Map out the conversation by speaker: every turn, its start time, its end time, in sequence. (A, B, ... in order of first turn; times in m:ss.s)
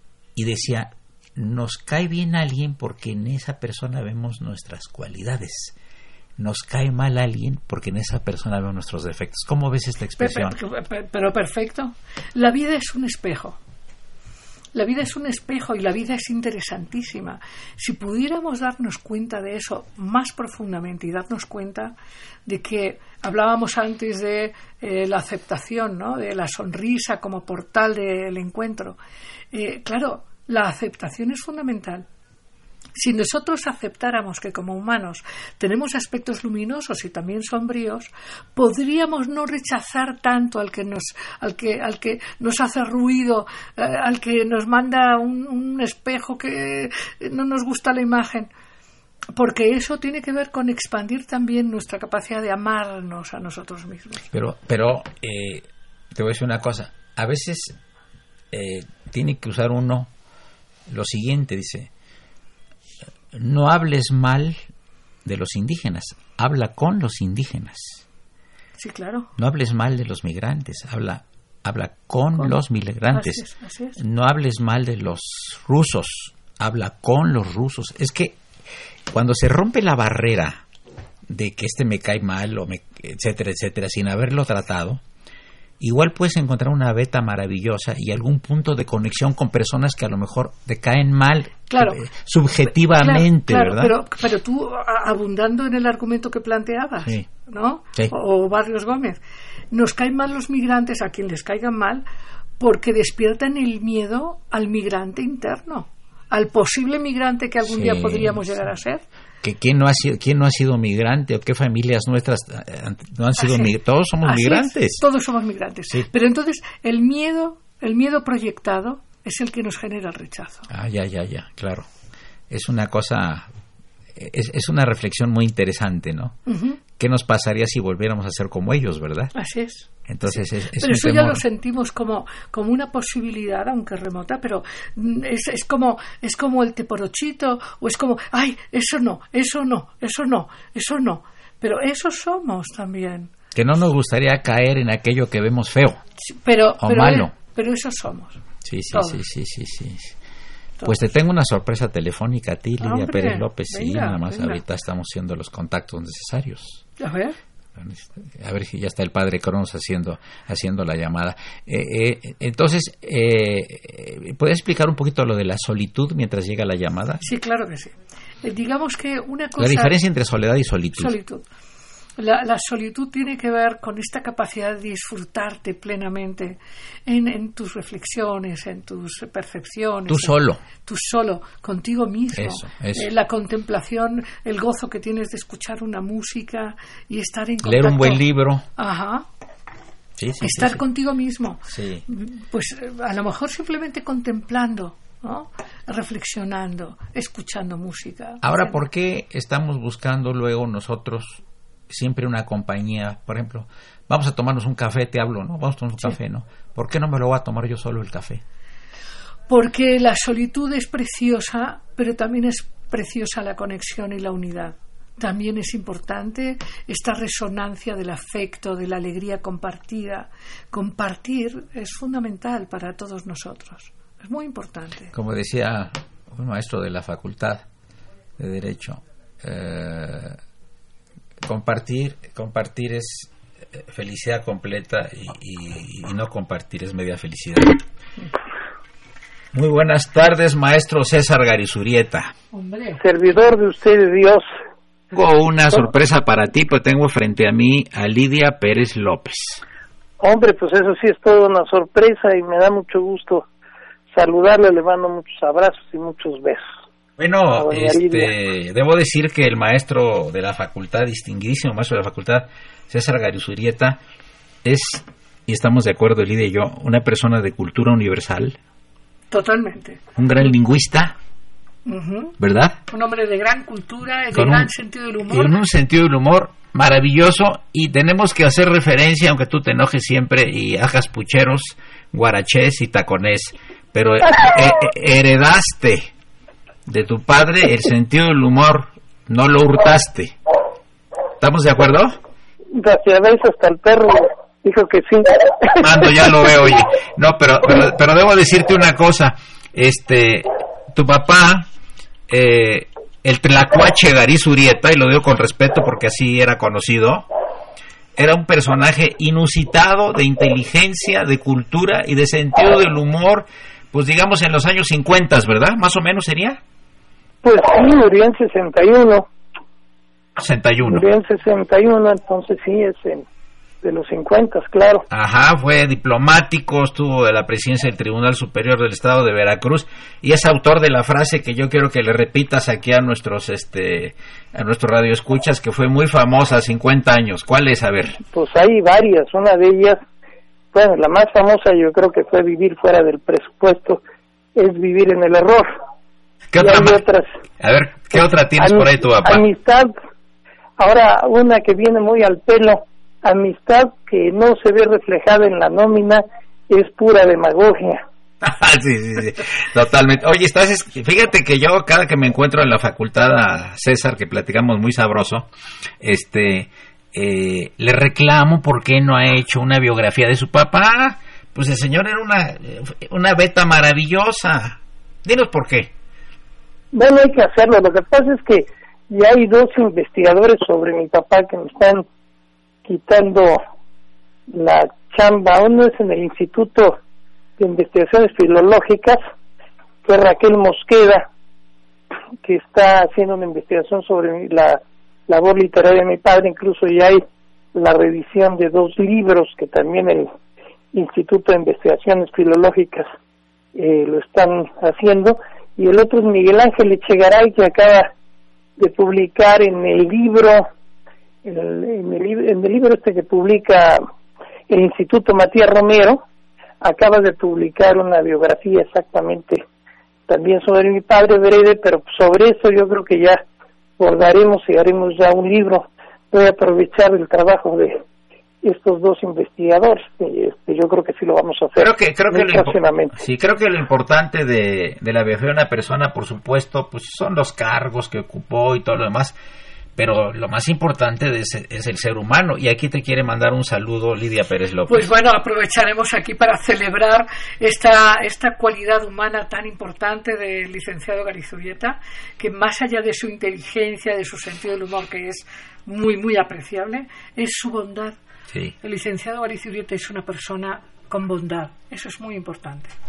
0:00.4-0:05.7 A
0:06.4-0:10.6 A
0:10.2-0:13.6 B
0:14.7-0:21.9 B
0:22.4-0:29.0 B
0:29.5-0:32.0 B
0:32.9-0:48.5 B
0:49.3-0:54.3 B
0:54.3-0:57.8 A
0:58.5-1:00.1 A
1:00.9-1:01.9 A
1:03.3-1:04.6 A
1:05.2-1:08.0 A
1:08.8-1:09.3 B
1:09.4-1:13.4 A
1:13.1-1:14.0 B
1:14.0-1:18.4 A
1:19.1-1:20.6 A
1:21.3-1:25.0 A
1:25.8-1:34.0 A
1:31.7-1:32.0 B
1:32.9-1:39.2 B
1:39.7-1:42.0 B
1:42.6-1:49.0 B
1:47.6-1:48.4 A
1:49.4-1:55.0 A
1:53.4-1:53.7 B
1:54.2-2:00.7 B
2:00.7-2:01.9 A
2:02.5-2:03.5 A
2:04.1-2:06.4 A
2:06.5-2:06.8 B
2:07.0-2:09.3 A
2:09.3-2:23.3 B
2:10.1-2:11.4 A
2:23.5-2:26.0 A
2:26.2-2:28.4 B
2:26.8-2:27.3 A
2:28.6-2:30.2 A
2:28.9-2:29.2 B
2:30.8-2:36.8 A
2:32.8-2:34.6 B
2:37.0-2:37.4 B
2:37.7-2:47.2 A
2:47.2-2:49.9 B
2:49.6-2:51.2 A
2:50.9-2:51.4 B
2:52.2-3:08.2 B
3:00.1-3:00.6 A
3:02.3-3:03.1 A
3:07.6-3:08.6 A
3:08.8-3:09.2 B
3:10.2-3:10.8 A
3:10.4-3:18.8 B
3:11.6-3:12.0 A
3:18.4-3:28.4 A
3:29.5-3:45.1 B
3:45.1-3:47.6 A
3:48.4-3:50.4 A
3:51.4-3:57.8 A
3:59.5-4:02.3 A
4:02.5-4:03.0 B
4:03.0-4:04.4 C
4:05.1-4:09.6 A
4:10.2-4:13.5 C
4:14.1-4:16.6 C
4:17.2-4:24.0 A
4:17.5-4:18.3 C
4:24.6-4:28.6 A
4:29.3-4:30.0 B
4:30.2-4:31.2 A
4:31.8-4:32.4 B
4:32.4-4:32.8 A
4:32.9-4:35.5 B
4:34.3-4:34.7 A
4:35.3-4:46.1 A
4:46.8-4:50.4 A
4:51.4-4:52.2 A
4:52.7-4:55.8 C
4:55.7-5:01.7 A
5:02.3-5:07.3 A
5:08.2-5:16.6 A
5:17.4-5:19.3 C
5:20.4-5:21.0 A
5:20.9-5:23.2 C
5:23.8-5:25.0 C
5:25.1-5:38.2 A
5:38.3-5:40.0 C
5:40.7-5:44.0 C
5:44.5-5:45.7 C
5:46.5-5:47.0 A
5:46.6-5:47.2 C
5:47.6-5:49.4 A
5:48.6-5:49.9 C
5:50.8-5:58.0 C
5:58.4-6:05.5 A
6:06.0-6:15.9 A
6:16.9-6:22.0 C
6:22.8-6:23.6 C
6:24.5-6:27.0 C
6:27.6-6:29.2 C
6:30.0-6:31.2 C
6:32.4-6:37.2 C
6:37.7-6:40.3 C
6:40.9-6:43.1 C
6:43.7-6:48.1 C
6:48.8-6:50.6 C
6:51.4-6:54.0 C
6:54.7-6:56.2 C
6:56.8-6:59.6 C
7:00.3-7:03.4 C
7:04.0-7:08.0 C
7:08.6-7:13.2 C
7:11.8-7:19.4 A
7:20.0-7:25.1 A
7:24.9-7:38.2 B
7:38.8-7:42.9 B